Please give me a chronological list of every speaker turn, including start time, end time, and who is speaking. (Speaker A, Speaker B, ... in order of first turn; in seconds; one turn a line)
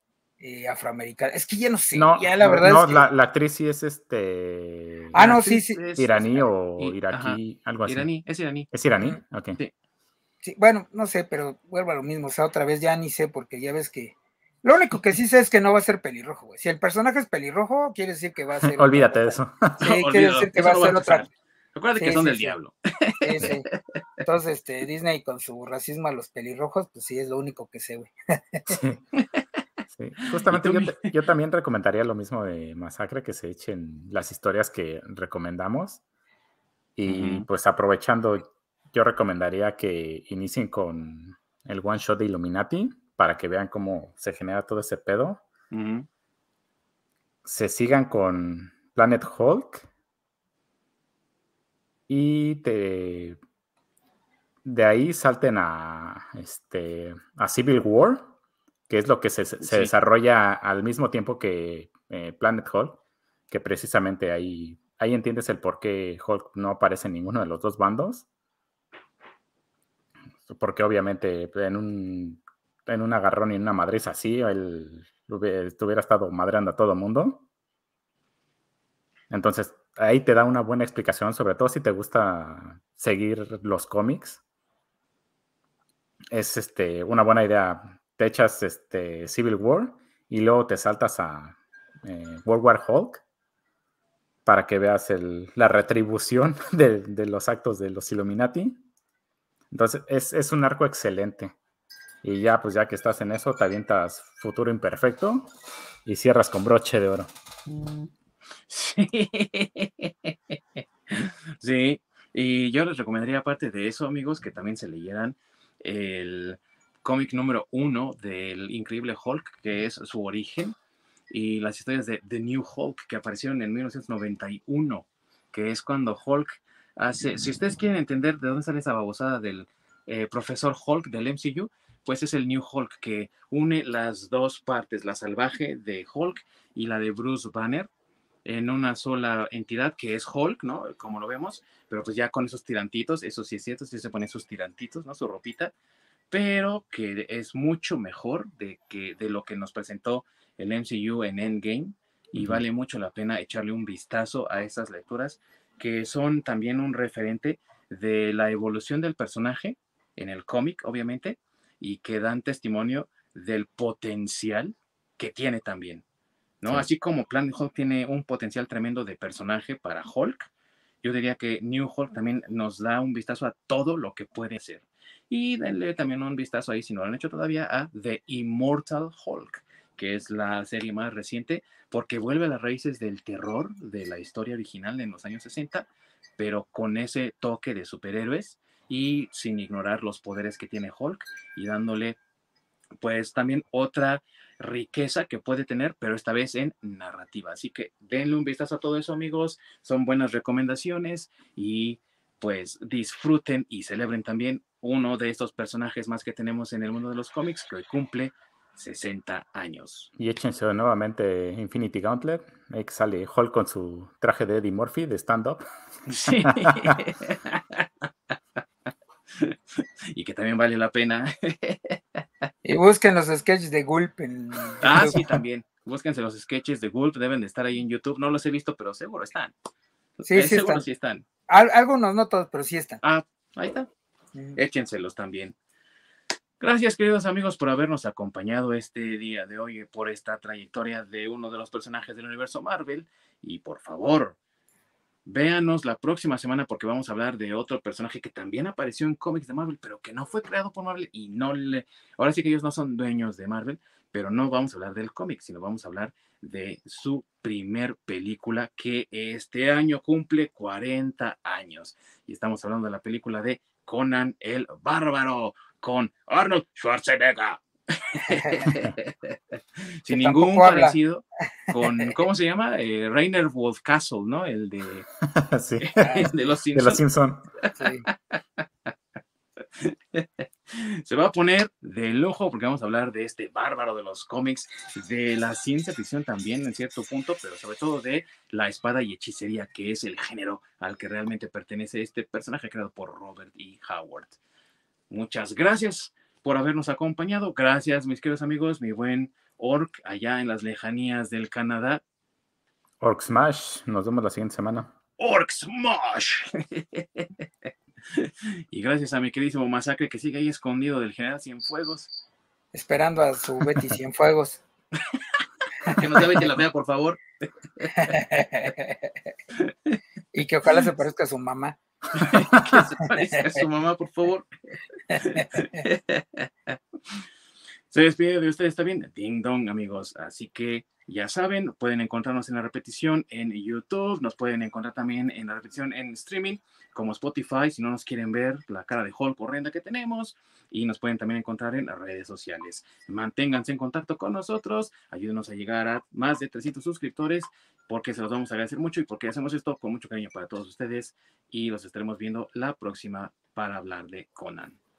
Speaker A: 0.4-3.1
Speaker B: 1.9-5.3
Speaker A: 5.1-5.8
Speaker C: 5.2-8.7
Speaker B: 6.0-8.1
Speaker B: 8.7-9.6
Speaker A: 10.4-21.2
Speaker B: 18.6-19.8
Speaker C: 19.8-24.0
Speaker A: 22.0-22.6
Speaker A: 23.2-23.7
Speaker A: 24.2-28.8
Speaker B: 28.7-29.0
Speaker C: 29.1-29.4
Speaker B: 29.9-36.0
Speaker C: 30.2-31.1
Speaker B: 37.0-45.4
Speaker C: 37.1-37.5
Speaker C: 45.7-46.1
Speaker B: 47.5-49.9
Speaker B: 52.1-53.4
Speaker B: 54.6-58.3
Speaker B: 58.9-68.3
Speaker C: 59.6-59.9
Speaker B: 70.5-77.4
Speaker B: 79.3-84.4
Speaker B: 86.3-93.2
Speaker B: 94.5-98.8
Speaker B: 99.7-101.5
Speaker B: 102.2-105.5
Speaker B: 106.0-107.3
Speaker C: 108.7-120.8
Speaker C: 121.3-137.9
Speaker C: 138.4-145.7
Speaker C: 146.3-166.0
Speaker B: 152.3-152.6
Speaker C: 166.6-170.5
Speaker C: 171.0-192.2
Speaker C: 193.0-210.1
Speaker B: 210.2-215.6
Speaker C: 216.1-218.6
Speaker B: 216.3-217.0
Speaker C: 219.3-222.5
Speaker A: 222.6-225.2
Speaker C: 224.8-229.5
Speaker C: 230.2-231.3
Speaker A: 230.3-230.8
Speaker A: 231.5-233.0
Speaker C: 233.0-233.9
Speaker C: 234.6-235.6
Speaker C: 236.6-244.4
Speaker C: 245.3-275.1
Speaker A: 268.3-268.7
Speaker A: 270.1-271.0
Speaker A: 271.7-272.1
Speaker B: 275.2-277.5
Speaker C: 275.8-277.0
Speaker A: 276.0-276.5
Speaker C: 277.6-278.9
Speaker A: 277.8-278.1
Speaker C: 279.8-294.4
Speaker C: 295.1-302.0
Speaker B: 303.0-304.9
Speaker C: 305.2-307.5
Speaker C: 308.1-312.1
Speaker A: 312.7-314.6
Speaker C: 315.0-318.2
Speaker A: 315.9-316.4
Speaker A: 318.0-319.1
Speaker C: 319.6-320.0
Speaker A: 320.3-321.8
Speaker C: 322.1-324.5
Speaker A: 323.1-323.6
Speaker A: 325.1-325.8
Speaker C: 325.2-327.2
Speaker C: 327.9-354.8